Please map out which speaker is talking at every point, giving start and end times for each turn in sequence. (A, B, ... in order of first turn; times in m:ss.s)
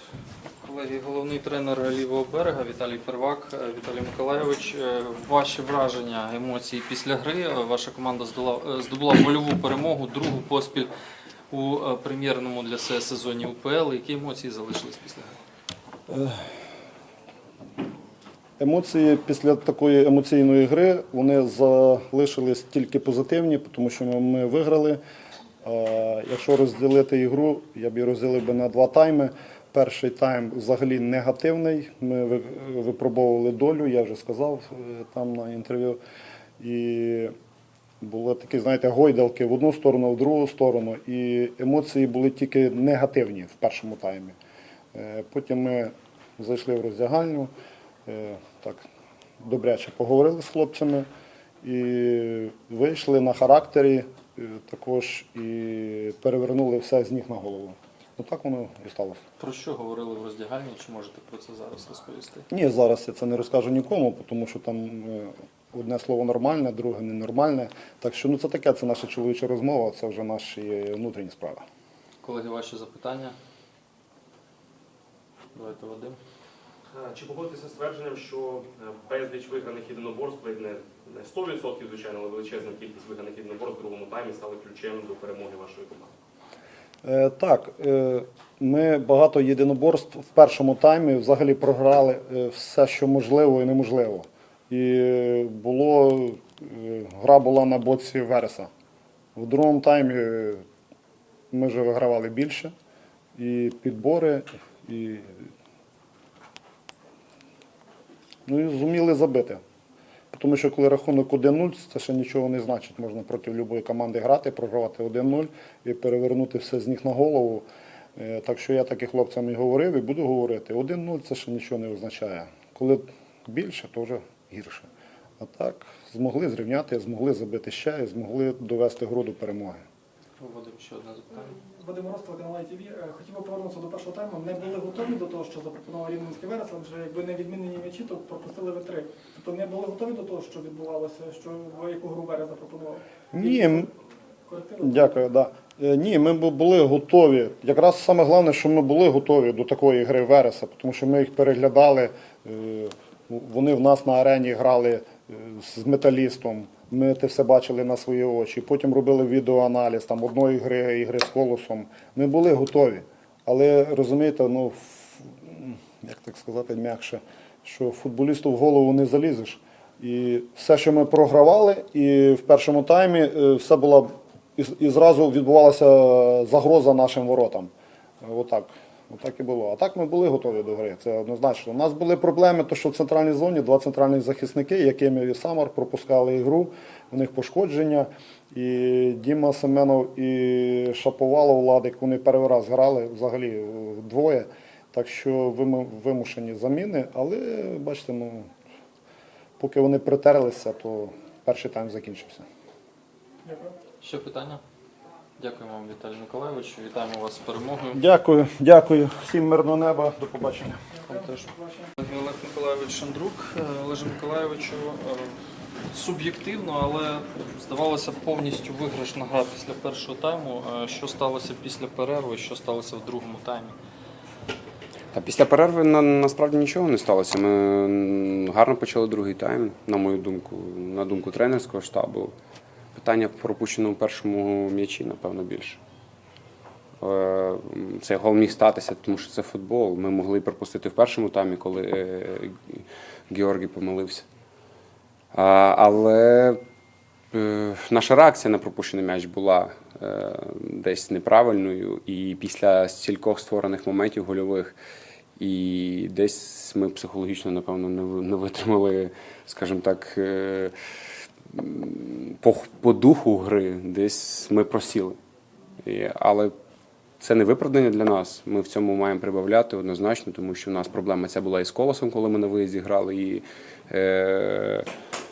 0:00.6-0:10.9 A
0:11.5-0:15.3 A
0:16.1-0:16.5 B
0:18.6-0:25.0 B
0:25.6-0:36.0 B
0:36.6-0:37.3 B
0:38.0-0:44.3 B
0:44.9-0:47.5 B
0:48.0-0:48.8 B
0:49.4-0:51.1 B
0:51.6-0:59.2 B
0:59.4-1:02.4 A
1:02.5-1:11.6 B
1:12.2-1:13.3 A
1:15.6-1:16.2 A
1:16.9-1:26.1 C
1:27.0-1:38.7 B
1:39.4-1:40.6 B
1:41.5-1:42.7 B
1:43.4-1:45.5 B
1:48.4-1:49.6 B
1:50.3-1:57.6 B
1:58.2-2:04.9 B
2:05.4-2:09.8 B
2:10.4-2:11.6 A
2:11.7-2:23.8 D
2:23.3-2:23.9 B
2:24.5-2:25.2 D
2:24.8-2:57.7 B
2:58.2-3:18.5 B
3:19.6-3:22.4 B
3:23.4-3:23.8 D
3:24.0-3:24.6 A
3:25.4-3:28.0 A
3:27.9-3:30.8 B
3:31.0-3:31.9 D
3:31.1-3:35.4 A
3:35.9-3:43.8 A
3:45.1-3:52.3 E
3:53.0-3:55.8 E
3:57.0-4:04.3 E
4:05.3-4:06.6 E
4:07.3-4:14.8 E
4:15.4-4:20.7 E
4:21.5-4:25.2 E
4:25.8-4:26.5 E
4:27.2-4:34.9 E